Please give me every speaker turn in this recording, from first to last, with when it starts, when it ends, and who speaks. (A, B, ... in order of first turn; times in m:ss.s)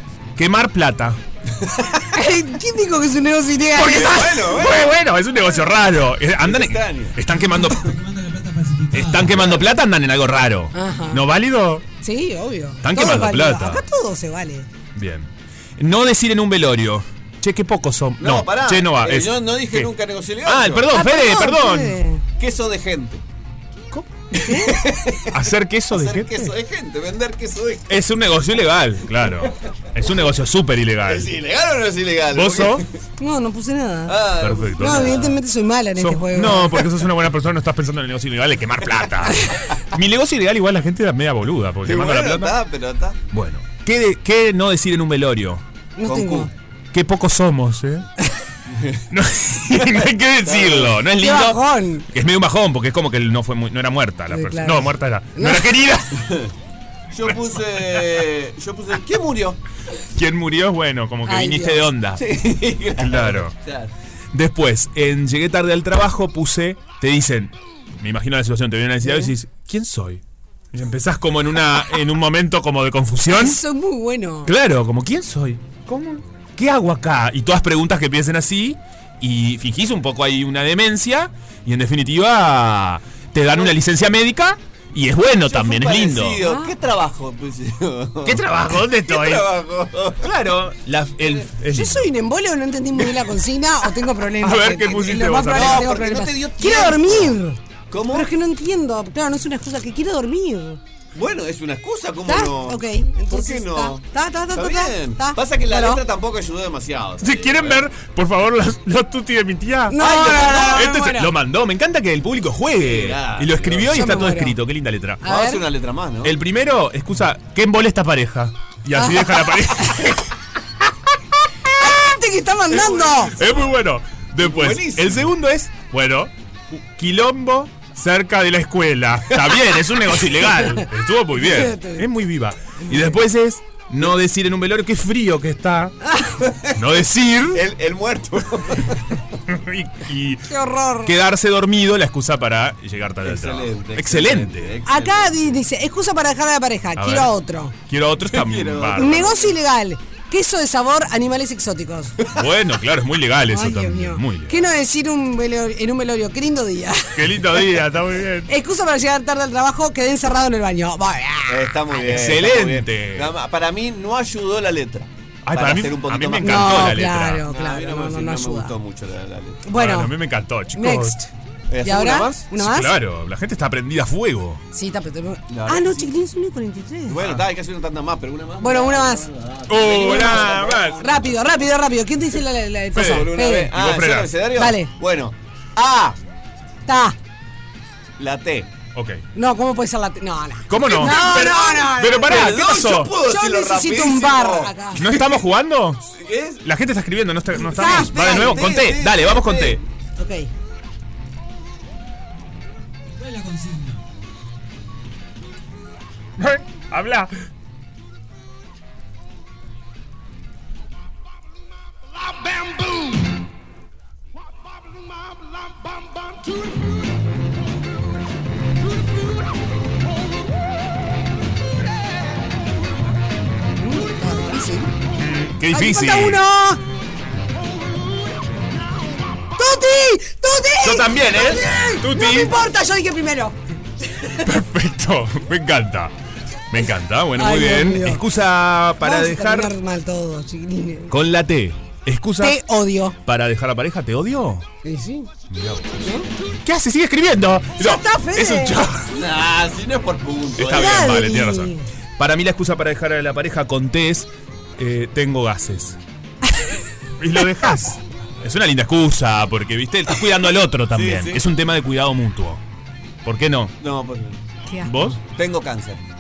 0:00.4-0:01.2 A
0:02.0-0:04.4 B
0:03.8-0:08.1 A
0:03.9-0:05.0 C
0:06.4-0:07.2 C
0:08.8-0:11.8 A
0:09.2-0:09.7 C
0:10.7-0:11.2 B
0:12.0-0:14.7 B
0:12.8-0:13.8 A
0:15.0-0:19.9 A
0:18.2-0:20.9 C
0:20.4-0:22.0 A
0:20.9-0:22.2 B
0:22.4-0:23.2 C
0:23.9-0:24.2 A
0:24.4-0:24.8 B
0:24.5-0:25.4 C
0:25.3-0:26.5 A
0:25.9-0:27.9 C
0:27.9-0:31.3 A
0:31.1-0:32.9 C
0:32.3-0:32.8 A
0:33.2-0:34.2 B
0:34.1-0:35.4 C
0:34.4-0:35.3 A
0:34.8-0:36.8 B
0:36.0-0:42.6 A
0:41.8-0:43.2 C
0:43.3-0:45.6 A
0:46.0-0:46.5 B
0:46.0-0:46.5 C
0:46.9-0:48.1 A
0:48.7-0:49.1 C
0:49.1-0:56.3 A
0:50.4-0:51.0 C
0:51.2-0:52.1 B
0:54.3-0:55.7 B
0:56.2-0:56.5 C
0:57.1-0:59.6 C
1:00.1-1:02.3 A
1:01.3-1:01.9 B
1:02.2-1:03.9 C
1:03.0-1:03.6 A
1:04.3-1:13.6 A
1:09.0-1:09.3 B
1:13.3-1:14.5 B
1:14.4-1:26.4 A
1:25.4-1:30.3 C
1:26.4-1:26.7 B
1:28.2-1:29.5 A
1:30.2-1:32.1 A
1:31.7-1:37.6 B
1:34.4-1:36.1 A
1:35.5-1:37.4 C
1:37.9-1:38.3 C
1:38.1-1:40.8 B
1:41.2-1:47.8 C
1:42.3-1:46.0 B
1:47.2-1:55.2 A
1:49.9-1:51.3 B
1:50.0-1:50.9 C
1:52.8-1:54.2 C
1:53.9-1:54.6 B
1:55.2-1:55.6 B
1:55.2-1:56.4 C
1:56.2-2:00.3 A
1:59.0-2:00.0 B
2:01.7-2:03.4 B
2:02.9-2:03.5 C
2:03.3-2:16.0 A
2:04.4-2:05.3 C
2:11.4-2:12.1 B
2:12.8-2:13.1 B
2:16.0-2:16.4 B
2:16.4-2:16.8 C
2:16.8-2:17.6 A
2:17.5-2:19.1 C
2:19.5-2:20.5 A
2:20.5-2:21.1 B
2:21.0-2:24.8 A
2:23.2-2:25.6 C
2:24.9-2:27.8 B
2:27.0-2:27.4 A
2:27.9-2:29.3 A
2:28.3-2:29.5 C
2:29.0-2:32.2 B
2:32.3-2:34.6 A
2:33.5-2:37.5 B
2:37.1-2:38.5 A
2:38.5-2:41.9 B
2:41.5-2:49.6 C
2:42.0-2:43.3 A
2:45.4-2:47.4 A
2:46.4-2:48.7 B
2:49.6-2:50.1 B
2:49.7-2:51.2 A
2:50.8-2:51.3 B
2:51.7-2:52.5 C
2:51.8-2:53.0 B
2:52.5-2:54.6 A
2:54.7-2:57.2 B
2:55.5-2:56.1 C
2:57.1-3:01.2 C
2:57.2-2:57.4 A
2:58.6-2:59.3 B
2:59.7-3:01.1 A
2:59.9-3:03.7 B
3:02.9-3:04.3 A
3:02.9-3:06.2 C
3:04.6-3:04.9 B
3:06.9-3:07.2 B
3:08.2-3:08.7 C
3:09.0-3:09.2 A
3:09.4-3:12.6 B
3:10.7-3:13.1 A
3:11.0-3:15.4 C
3:13.2-3:15.1 B
3:15.0-3:16.1 A
3:16.1-3:16.6 C
3:16.6-3:19.8 A
3:17.6-3:18.7 B
3:17.8-3:19.8 C
3:20.2-3:20.5 B
3:26.4-3:27.4 A
3:43.8-3:44.9 B
3:45.2-3:46.4 A
3:45.7-3:46.8 B
3:49.6-3:53.6 B
3:50.8-3:52.6 A
3:54.4-3:56.1 A
3:56.7-3:59.8 A
3:57.4-3:58.2 B
3:59.0-4:01.1 B
4:01.1-4:02.6 A
4:02.4-4:03.2 B
4:03.2-4:04.7 A
4:04.8-4:05.3 B
4:05.5-4:09.2 A
4:06.0-4:06.3 B
4:07.8-4:08.8 B
4:09.1-4:11.2 C
4:10.6-4:16.0 A
4:10.7-4:11.9 B
4:17.2-4:22.6 A
4:20.9-4:21.5 C
4:23.2-4:23.8 A
4:23.8-4:24.4 C
4:24.7-4:25.1 B
4:24.8-4:25.2 A
4:25.3-4:26.0 C